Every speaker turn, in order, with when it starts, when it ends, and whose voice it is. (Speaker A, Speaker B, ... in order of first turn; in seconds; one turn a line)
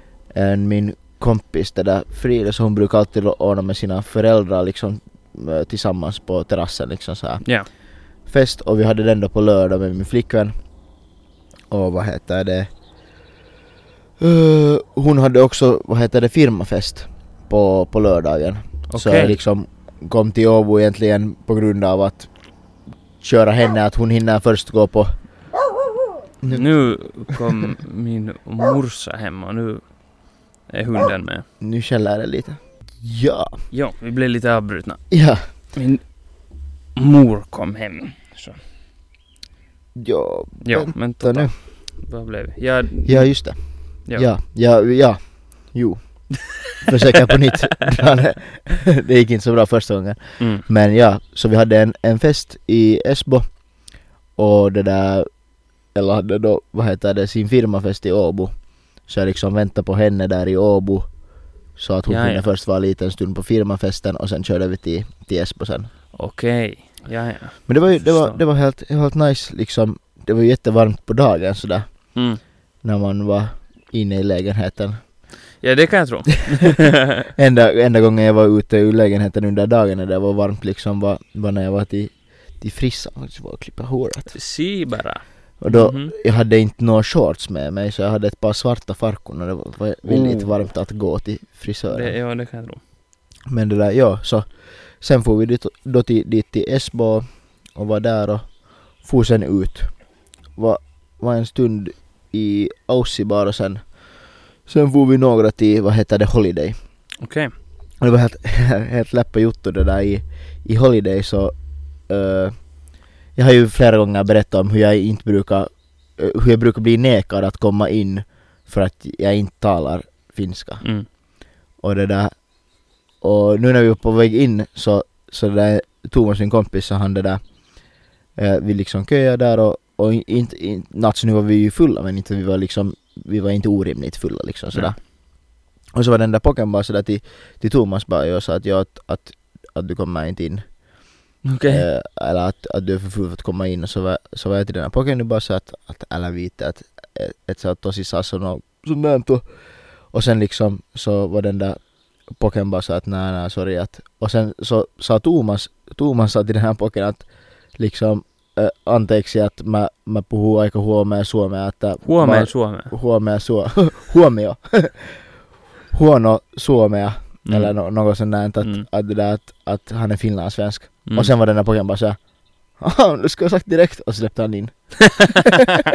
Speaker A: 0.3-10.5
Speaker B: 7.4-7.7
Speaker A: 11.7-12.7
Speaker A: 14.2-22.3
Speaker B: 18.9-19.4
Speaker A: 23.2-25.1
Speaker A: 26.4-27.2
Speaker B: 26.5-31.4
Speaker A: 31.6-33.6
Speaker B: 33.7-38.6
Speaker A: 35.1-35.5
Speaker A: 39.9-41.5
Speaker B: 40.6-44.3
Speaker A: 43.0-55.3
Speaker B: 50.4-50.7
Speaker A: 55.9-65.9
Speaker B: 62.1-62.4
Speaker B: 66.1-68.4
Speaker A: 67.7-75.1
Speaker B: 72.1-72.4
Speaker B: 75.6-77.3
Speaker A: 77.2-84.4
Speaker B: 84.3-86.1
Speaker A: 85.6-92.2
Speaker B: 90.0-90.5
Speaker B: 91.9-92.8
Speaker A: 93.5-104.0
Speaker A: 104.6-106.8
Speaker B: 107.2-107.5
Speaker A: 108.0-112.8
Speaker A: 113.3-120.9
Speaker B: 120.8-121.1
Speaker A: 121.8-122.5
Speaker A: 123.2-140.8
Speaker B: 141.4-141.9
Speaker A: 141.7-165.3
Speaker B: 162.0-162.9
Speaker A: 165.9-175.5
Speaker B: 167.4-167.8
Speaker B: 168.6-168.9
Speaker B: 171.1-171.3
Speaker B: 175.2-175.6